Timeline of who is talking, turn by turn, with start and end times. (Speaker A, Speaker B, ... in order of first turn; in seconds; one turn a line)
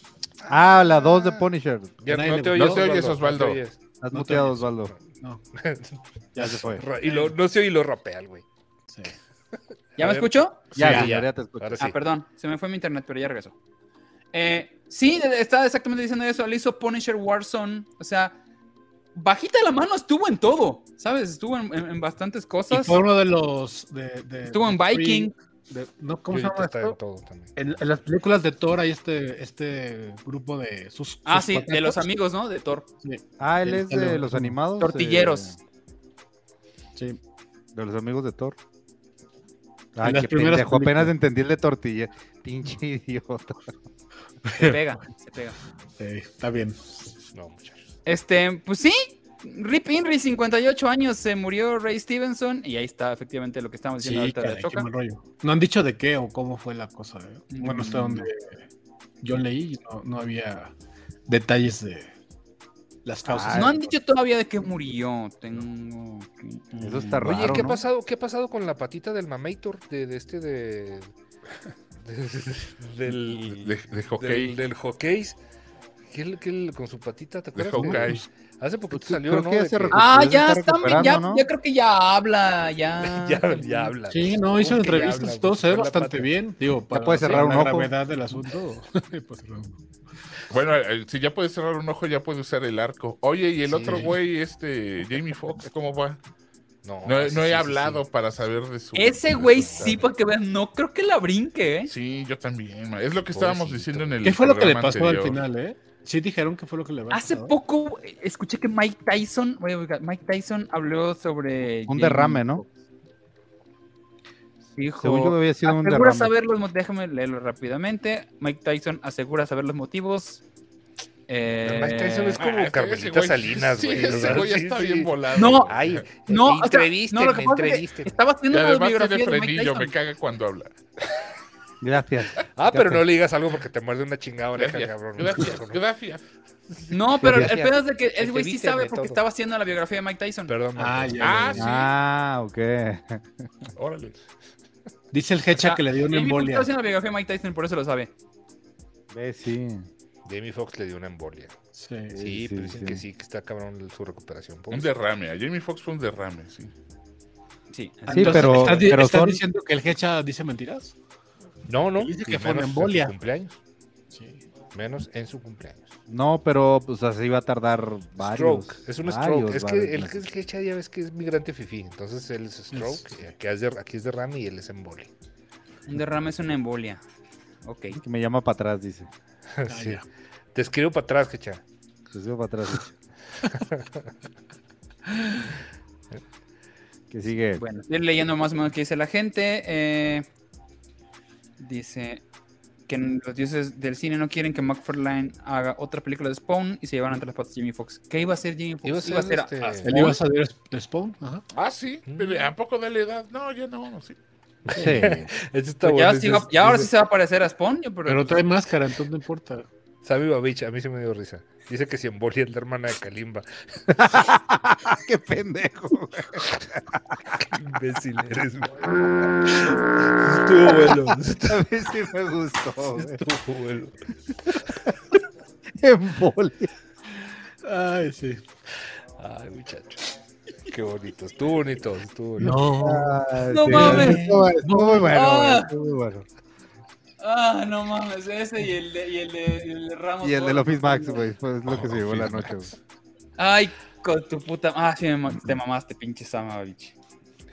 Speaker A: 0.5-2.1
Speaker B: 0.9-1.4
Speaker B: 2.0-3.8
Speaker C: 2.1-2.9
Speaker D: 2.5-3.6
Speaker A: 4.0-4.9
Speaker C: 4.1-4.7
Speaker B: 5.5-6.0
Speaker C: 6.3-7.3
Speaker A: 6.4-6.8
Speaker B: 6.7-8.4
Speaker B: 9.9-11.9
Speaker E: 10.0-10.6
Speaker C: 10.7-11.1
Speaker A: 10.8-11.9
Speaker E: 11.8-13.5
Speaker E: 14.3-18.3
Speaker E: 19.1-23.0
Speaker C: 22.7-27.0
Speaker E: 24.5-25.3
Speaker B: 26.3-27.5
Speaker C: 27.6-32.1
Speaker E: 31.2-32.9
Speaker C: 33.0-34.5
Speaker A: 33.4-35.6
Speaker E: 34.8-35.5
Speaker A: 37.7-38.5
Speaker A: 40.0-43.7
Speaker C: 40.0-41.1
Speaker C: 44.4-44.8
Speaker E: 44.5-45.6
Speaker C: 46.0-47.0
Speaker B: 47.3-47.9
Speaker E: 48.0-54.9
Speaker C: 54.0-58.6
Speaker E: 57.5-58.3
Speaker C: 59.2-60.7
Speaker C: 61.3-62.1
Speaker C: 63.0-63.8
Speaker A: 63.3-63.8
Speaker E: 63.5-67.6
Speaker A: 66.8-67.8
Speaker B: 67.2-71.1
Speaker B: 72.0-75.4
Speaker D: 73.5-74.6
Speaker B: 76.1-80.0
Speaker D: 77.5-78.2
Speaker C: 77.8-78.1
Speaker A: 78.9-81.5
Speaker E: 79.9-83.9
Speaker B: 83.0-86.3
Speaker C: 84.1-89.8
Speaker A: 86.9-87.9
Speaker D: 90.5-96.2
Speaker C: 93.8-94.1
Speaker B: 96.8-98.0
Speaker D: 97.0-100.0
Speaker E: 98.9-101.9
Speaker D: 101.9-105.4
Speaker B: 103.3-104.2
Speaker C: 104.2-107.5
Speaker E: 107.1-112.7
Speaker A: 111.9-112.6
Speaker E: 114.8-120.4
Speaker A: 115.0-116.3
Speaker E: 121.3-122.4
Speaker B: 121.6-128.2
Speaker D: 122.3-126.1
Speaker E: 125.3-125.7
Speaker E: 126.2-129.9
Speaker D: 128.5-130.7
Speaker A: 131.8-133.0
Speaker B: 132.6-135.8
Speaker D: 134.6-136.2
Speaker E: 136.9-140.5
Speaker A: 137.2-137.7
Speaker B: 137.2-137.6
Speaker B: 138.2-139.2
Speaker B: 140.5-141.7
Speaker C: 140.8-141.7
Speaker D: 141.2-141.9
Speaker A: 141.5-143.5
Speaker D: 143.8-144.2
Speaker C: 145.1-146.7
Speaker E: 145.5-148.1
Speaker A: 149.1-149.9
Speaker B: 150.2-151.5
Speaker C: 151.7-152.2
Speaker A: 152.1-153.0
Speaker B: 152.2-154.9
Speaker D: 154.7-156.7
Speaker E: 157.7-158.9
Speaker A: 158.1-159.4
Speaker C: 158.1-160.9
Speaker B: 161.7-163.6
Speaker C: 162.0-163.1
Speaker C: 164.1-164.4
Speaker B: 164.7-165.9
Speaker A: 166.1-170.3
Speaker B: 168.2-175.1
Speaker C: 172.7-173.0
Speaker E: 175.9-177.0
Speaker E: 177.6-178.0
Speaker A: 177.9-179.1
Speaker B: 179.6-180.0
Speaker C: 179.7-180.0
Speaker B: 180.5-181.6
Speaker A: 182.1-182.9
Speaker B: 183.5-184.1
Speaker C: 185.1-185.4
Speaker A: 187.1-187.6
Speaker E: 187.6-190.2
Speaker E: 191.6-192.2
Speaker E: 192.9-200.2
Speaker B: 198.8-200.0
Speaker C: 199.8-201.4
Speaker D: 201.5-204.2
Speaker B: 202.1-202.5
Speaker B: 204.7-206.9
Speaker A: 204.7-205.3
Speaker E: 205.8-208.4
Speaker C: 208.1-209.7
Speaker B: 210.0-214.3
Speaker A: 214.1-217.0
Speaker B: 217.5-221.6
Speaker A: 220.6-223.2
Speaker B: 222.9-224.6
Speaker A: 225.8-226.7
Speaker C: 227.6-228.4
Speaker B: 229.2-230.1
Speaker B: 230.7-232.6
Speaker C: 232.4-235.1
Speaker A: 232.7-236.2
Speaker E: 233.5-234.4
Speaker E: 235.1-235.7
Speaker E: 237.2-241.2
Speaker A: 240.2-242.7
Speaker B: 241.8-242.5
Speaker E: 243.4-246.9